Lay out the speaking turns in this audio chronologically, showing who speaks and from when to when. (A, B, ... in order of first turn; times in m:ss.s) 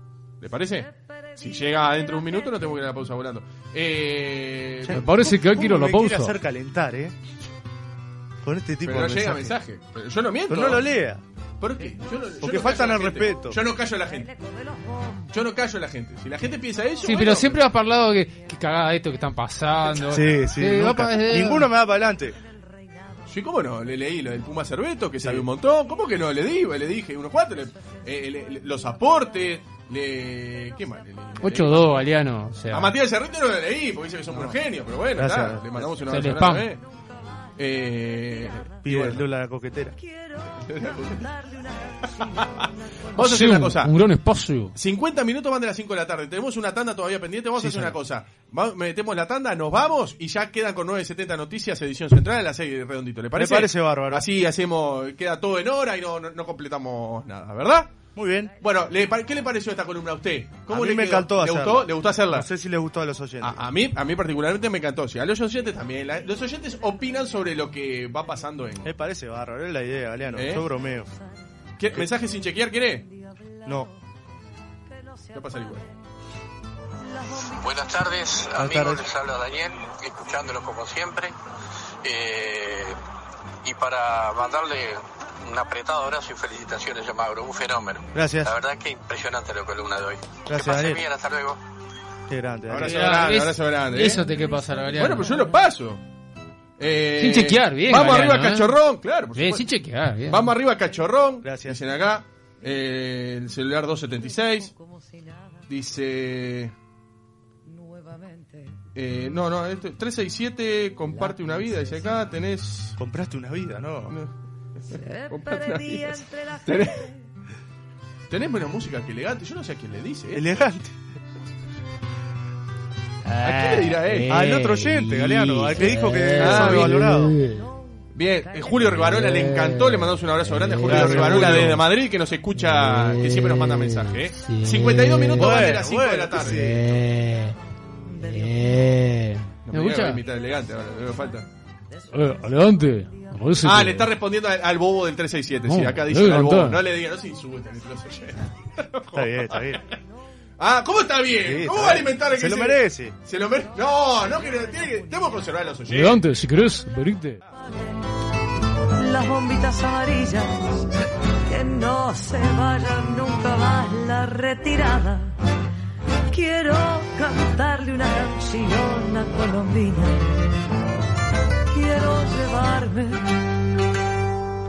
0:00.4-0:05.0 A
0:04.8-0:07.1 B
0:04.9-0:06.4 C
0:08.4-0:09.5 B
0:08.8-0:10.8 A
0:10.5-0:11.2 B
0:11.6-0:14.3 A
0:12.4-0:13.6 B
0:14.1-0:15.2 D
0:15.3-0:17.6 A
0:17.0-0:21.7 C
0:20.1-0:22.3 B
0:23.3-0:32.1 A
0:31.4-0:32.9 C
0:32.7-0:36.8 A
0:34.3-0:34.6 B
0:35.2-0:36.0 B
0:36.0-0:36.7 C
0:37.6-0:39.2 A
0:38.8-0:40.0 B
0:40.0-0:42.5 D
0:40.5-0:41.3 A
0:42.3-0:44.0 A
0:43.2-0:44.7 C
0:44.7-0:57.9 A
0:47.6-0:48.0 B
0:53.3-0:54.2 B
0:58.2-0:58.5 B
0:58.6-1:02.5 A
1:00.7-1:03.6 B
1:03.4-1:08.9 A
1:08.8-1:11.1 B
1:10.3-1:10.7 A
1:11.8-1:13.1 A
1:15.3-1:15.9 A
1:17.6-1:21.3 E
1:18.6-1:19.0 B
1:22.0-1:23.0 E
1:23.6-1:31.6 E
1:28.1-1:28.5 B
1:30.5-1:31.0 B
1:32.3-1:33.1 B
1:32.7-1:34.3 A
1:32.8-1:35.3 C
1:34.9-1:36.0 A
1:36.8-1:39.7 A
1:37.2-1:38.7 C
1:39.4-1:40.5 C
1:40.3-1:44.7 A
1:41.4-1:41.8 B
1:44.6-1:45.2 D
1:45.7-1:46.7 A
1:47.7-1:48.8 D
1:48.9-1:53.0 A
1:53.0-1:54.2 B
1:54.8-1:57.1 A
1:54.9-1:57.2 D
1:58.3-2:00.4 A
2:00.3-2:00.9 B
2:03.4-2:04.5 A
2:03.4-2:05.2 C
2:04.3-2:07.3 B
2:05.6-2:07.2 A
2:06.0-2:07.3 C
2:08.1-2:16.8 A
2:08.5-2:09.0 D
2:09.4-2:09.8 C
2:10.5-2:11.8 C
2:10.8-2:11.7 B
2:12.9-2:13.5 C
2:14.0-2:15.4 C
2:15.4-2:16.8 B
2:16.4-2:17.5 C
2:18.1-2:18.8 D
2:18.3-2:20.2 C
2:19.6-2:21.5 A
2:22.1-2:24.1 C
2:23.6-2:29.9 A
2:25.6-2:26.8 C
2:29.1-2:29.8 B
2:30.6-2:36.2 A
2:31.4-2:33.1 B
2:35.9-2:37.4 C
2:39.0-2:40.9 D
2:41.5-2:45.3 D
2:46.3-2:50.3 D
2:51.7-2:53.2 D